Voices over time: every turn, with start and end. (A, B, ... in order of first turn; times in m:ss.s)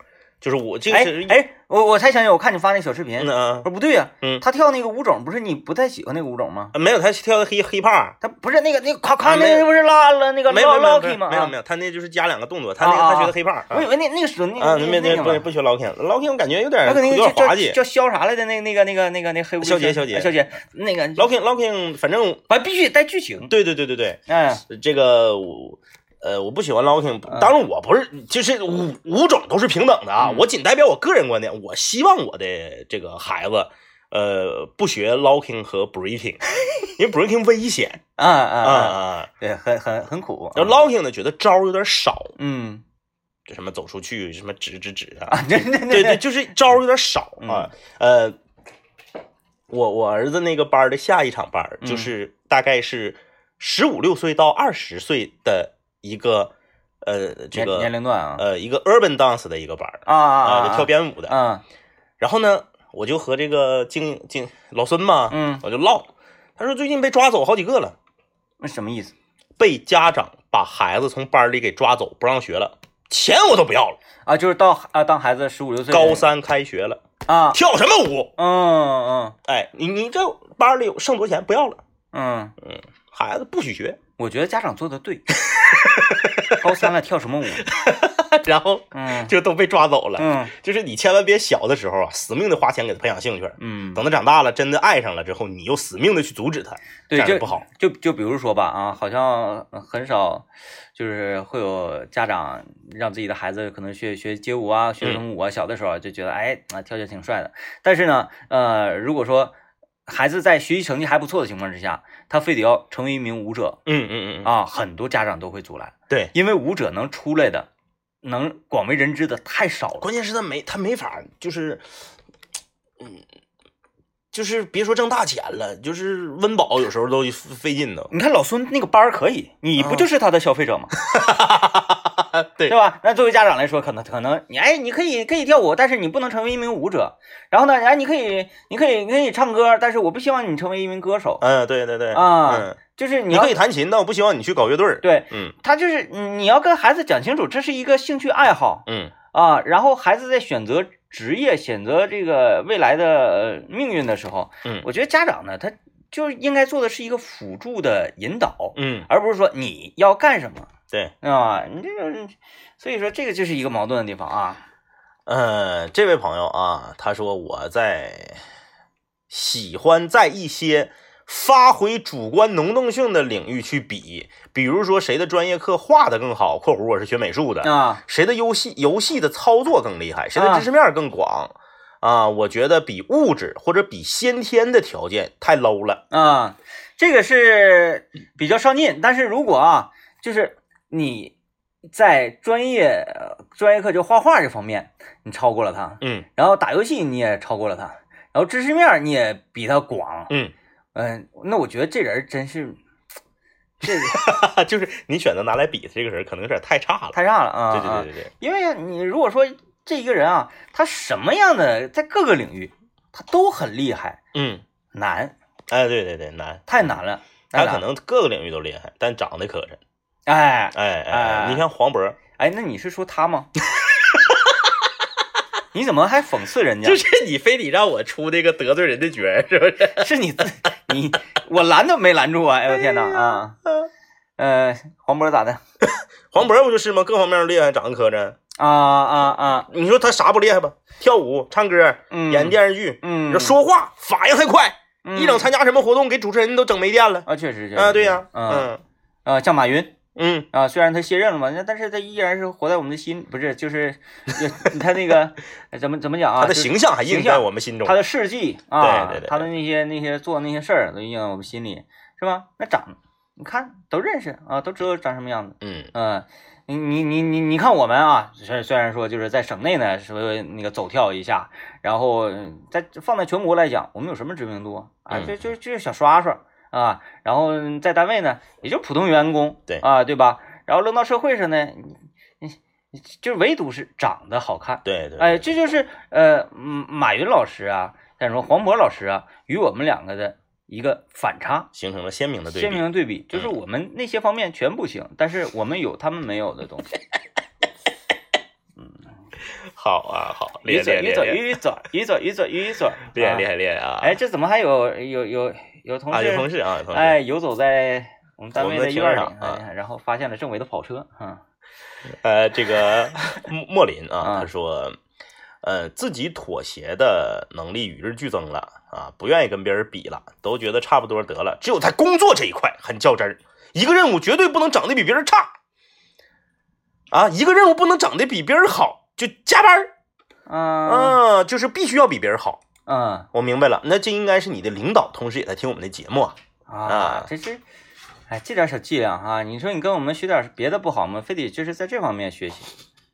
0:00.4-0:01.4 A
0:00.9-0:06.7 B
0:03.2-0:03.7 A
0:06.7-0:08.2 A
0:08.2-0:11.5 B
0:09.2-0:09.7 A
0:10.5-0:13.9 A
0:12.8-0:15.4 B
0:14.6-0:17.8 A
0:16.8-0:21.3 B
0:19.6-0:20.3 A
0:21.2-0:22.4 A
0:22.5-0:23.5 B
0:23.4-0:38.0 A
0:24.3-0:24.6 B
0:30.2-0:30.5 B
0:38.2-0:40.8 B
0:38.6-0:39.3 A
0:40.5-0:42.3 A
0:42.4-0:42.8 B
0:43.5-0:48.4 A
0:45.3-0:46.4 B
0:47.4-0:47.7 B
0:49.7-0:56.5 A
0:51.8-0:52.1 B
0:57.0-1:01.4 A
0:57.5-0:58.4 B
1:00.0-1:01.6 B
1:02.2-1:08.0 A
1:05.3-1:05.6 B
1:08.6-1:09.1 B
1:09.6-1:14.0 A
1:14.2-1:16.2 B
1:15.9-1:17.0 A
1:17.3-1:17.6 B
1:17.5-1:18.3 A
1:18.4-1:19.4 B
1:19.4-1:21.8 A
1:22.1-1:22.5 B
1:22.6-1:24.0 A
1:24.2-1:25.3 B
1:25.5-1:26.8 A
1:26.5-1:27.7 B
1:27.6-1:37.6 A
1:28.9-1:29.3 B
1:30.2-1:30.5 B
1:33.6-1:34.0 B
1:37.1-1:49.5 B
1:50.0-1:53.8 B
1:53.8-1:54.5 A
1:54.4-1:57.7 B
1:58.2-2:00.1 B
2:00.0-2:01.8 A
2:04.3-2:08.1 A
2:08.1-2:10.9 B
2:09.8-2:10.0 A
2:11.0-2:12.7 A
2:12.7-2:21.4 B
2:21.4-2:22.8 A
2:22.1-2:23.5 B
2:23.3-2:25.5 A
2:25.0-2:40.7 B
2:28.9-2:29.1 A
2:38.8-2:39.1 A
2:41.2-2:44.6 B
2:45.2-2:48.4 A
2:49.3-3:06.0 A
2:57.6-2:58.0 B
3:00.3-3:00.6 B
3:06.1-3:11.3 B
3:11.8-3:20.3 B
3:16.0-3:16.2 A
3:20.9-3:22.8 B
3:23.8-3:24.2 B
3:23.8-3:27.2 A
3:27.1-3:34.2 B
3:27.7-3:28.3 A
3:34.3-3:34.6 A
3:34.9-3:35.3 B
3:35.7-3:36.6 A
3:36.7-3:37.8 B
3:37.5-3:39.8 A
3:40.3-3:41.6 B
3:40.7-3:42.2 A
3:42.4-3:43.5 B
3:43.7-3:44.8 A
3:45.7-3:47.0 B
3:46.8-3:50.1 A
3:49.9-3:53.6 B
3:52.7-3:53.9 A
3:54.4-3:55.6 B
3:55.8-3:58.4 A
3:58.6-3:59.7 B
3:59.7-4:08.8 A
4:02.1-4:03.6 B
4:05.0-4:05.5 B
4:07.2-4:08.7 B
4:09.2-4:09.9 B
4:10.1-4:10.5 A
4:10.5-4:51.7 B
4:16.4-4:18.0 A
4:18.8-4:19.4 A
4:25.6-4:25.9 A
4:35.1-4:35.4 A
4:44.8-4:45.5 A
4:51.7-4:53.5 A
4:52.5-4:56.9 B
4:59.6-5:01.4 A
5:00.6-5:03.5 B
5:03.1-5:04.2 A
5:04.0-5:11.4 B
5:06.1-5:07.2 A
5:08.6-5:09.6 A
5:12.2-5:15.0 A
5:14.2-5:14.5 B
5:15.6-5:25.5 A
5:27.1-5:29.9 A
5:30.5-5:31.2 B
5:30.8-5:32.6 A
5:32.9-5:33.3 B
5:33.3-5:36.4 A
5:36.7-5:37.6 B
5:36.9-5:37.3 A
5:38.3-5:42.7 B